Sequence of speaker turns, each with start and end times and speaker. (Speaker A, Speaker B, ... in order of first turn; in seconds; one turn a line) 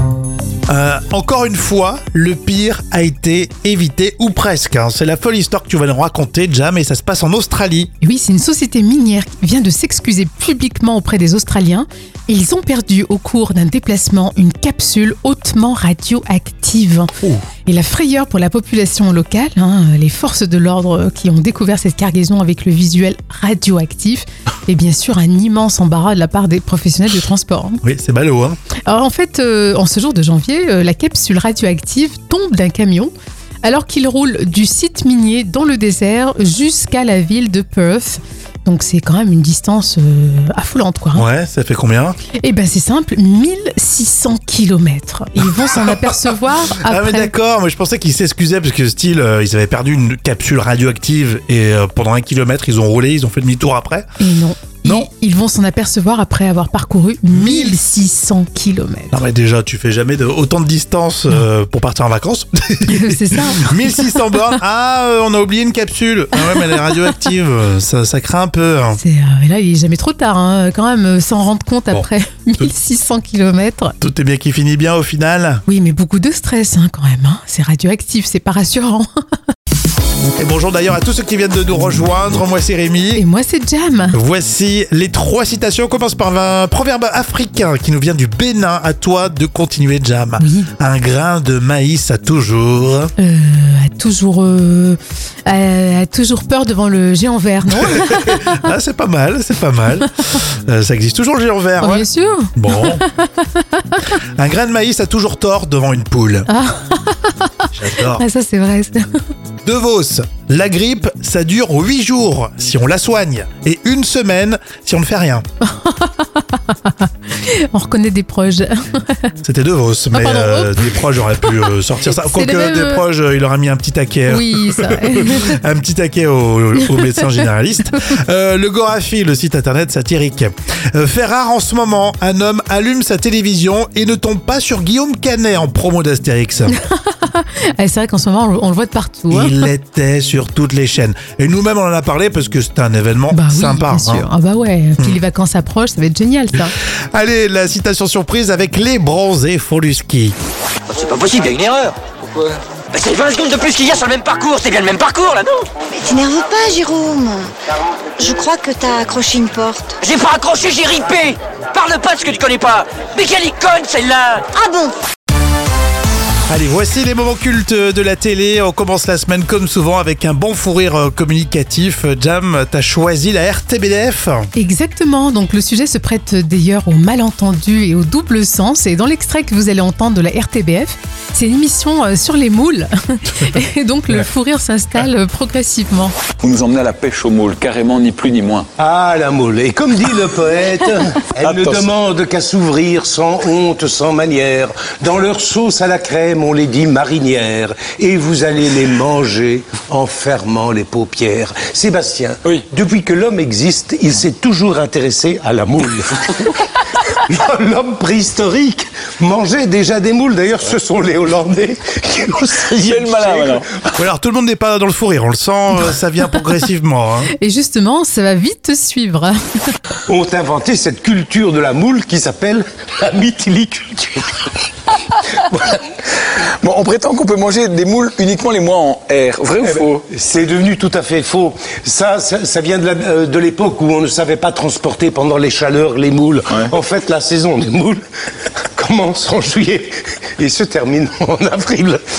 Speaker A: 0.7-7.9
Speaker B: 8.0-17.1
Speaker B: 17.6-27.8
Speaker A: 27.8-28.6
Speaker B: 28.9-33.1
Speaker B: 33.6-41.2
Speaker A: 41.1-42.2
Speaker B: 42.4-47.3
Speaker A: 45.6-46.1
Speaker A: 46.9-54.1
Speaker B: 54.2-59.2
Speaker A: 57.3-57.8
Speaker A: 59.1-69.0
Speaker B: 62.9-64.2
Speaker B: 66.4-67.2
Speaker B: 69.0-74.0
Speaker A: 74.0-75.6
Speaker B: 75.7-79.1
Speaker A: 80.4-83.2
Speaker B: 83.2-84.2
Speaker A: 84.1-93.1
Speaker B: 90.4-90.7
Speaker B: 93.2-98.5
Speaker A: 97.8-103.0
Speaker B: 101.8-104.0
Speaker A: 104.3-106.5
Speaker B: 106.5-109.2
Speaker A: 107.8-108.2
Speaker A: 109.6-115.5
Speaker B: 115.6-119.3
Speaker A: 119.4-136.8
Speaker B: 120.1-120.9
Speaker B: 121.4-123.0
Speaker B: 124.3-125.6
Speaker B: 126.8-127.4
Speaker B: 136.7-139.6
Speaker A: 139.3-144.3
Speaker B: 143.3-146.7
Speaker A: 146.6-150.3
Speaker C: 150.9-155.7
Speaker D: 155.9-157.5
Speaker D: 158.2-160.0
Speaker C: 160.0-164.5
Speaker D: 164.5-164.9
Speaker A: 166.5-174.5
Speaker B: 174.6-186.2
Speaker E: 186.4-188.7
Speaker F: 188.8-213.6
Speaker E: 191.4-191.9
Speaker E: 212.4-213.7
Speaker A: 213.9-217.3
Speaker B: 217.3-219.8
Speaker F: 220.1-224.6
Speaker F: 225.5-225.8
Speaker E: 226.6-230.1
Speaker F: 229.6-238.0
Speaker F: 238.8-242.0